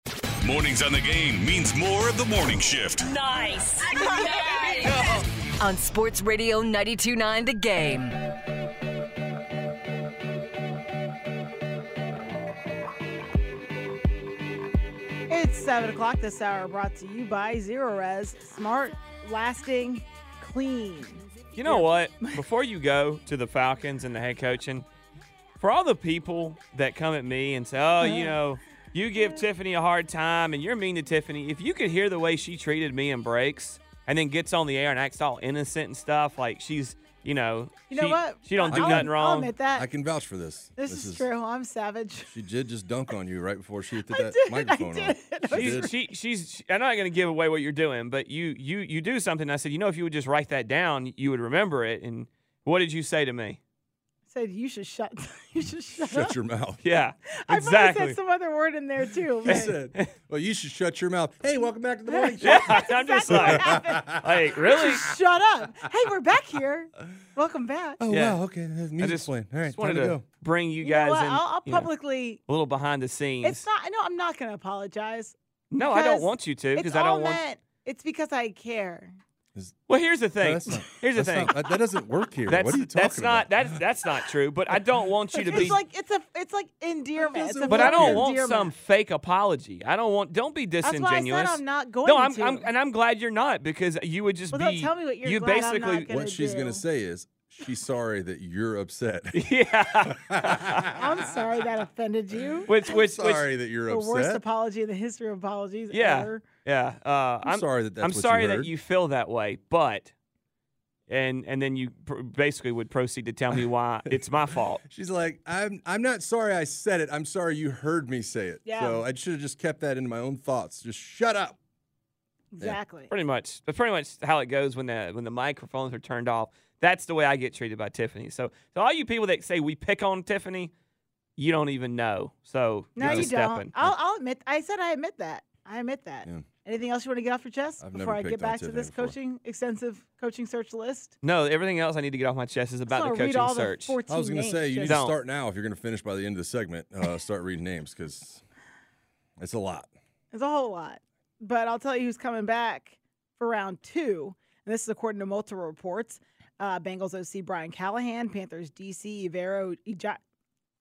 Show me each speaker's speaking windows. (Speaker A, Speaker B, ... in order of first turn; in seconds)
Speaker A: 0.4-3.0
Speaker B: 3.1-8.2
Speaker C: 15.3-22.4, 28.0-28.4, 37.9-39.9, 40.8-42.3, 44.1-46.0, 54.3-56.3, 57.3-59.7, 62.1-68.0, 70.8-72.4, 73.4-79.2, 85.3-88.7, 90.8-92.7, 94.5-96.8, 101.0-102.7, 103.9-106.4, 118.6-119.0, 122.5-123.1, 132.9-141.1, 142.9-145.0, 150.3-160.2
Speaker D: 21.6-24.9, 25.6-39.5, 45.5-53.6, 56.8-58.2, 59.5-60.0, 62.4-65.0, 68.1-68.4, 69.0-71.9, 72.5-73.6, 75.7-77.4, 79.9-81.5, 82.5-85.8, 87.7-96.1, 99.3-100.8, 102.7-103.5, 105.9-110.1, 111.1-114.8, 123.1-130.7, 131.4-133.7, 141.2-143.9, 144.8-145.1
Speaker E: 38.7-39.1, 39.7-41.2, 42.3-45.9, 56.0-56.8, 59.4-65.1, 68.0-70.2, 80.4-83.8, 87.2-88.3, 96.1-101.0, 102.8-104.4, 107.5-108.7, 114.8-121.6, 133.0-133.9, 137.8-139.1, 144.1-148.4, 149.4-149.9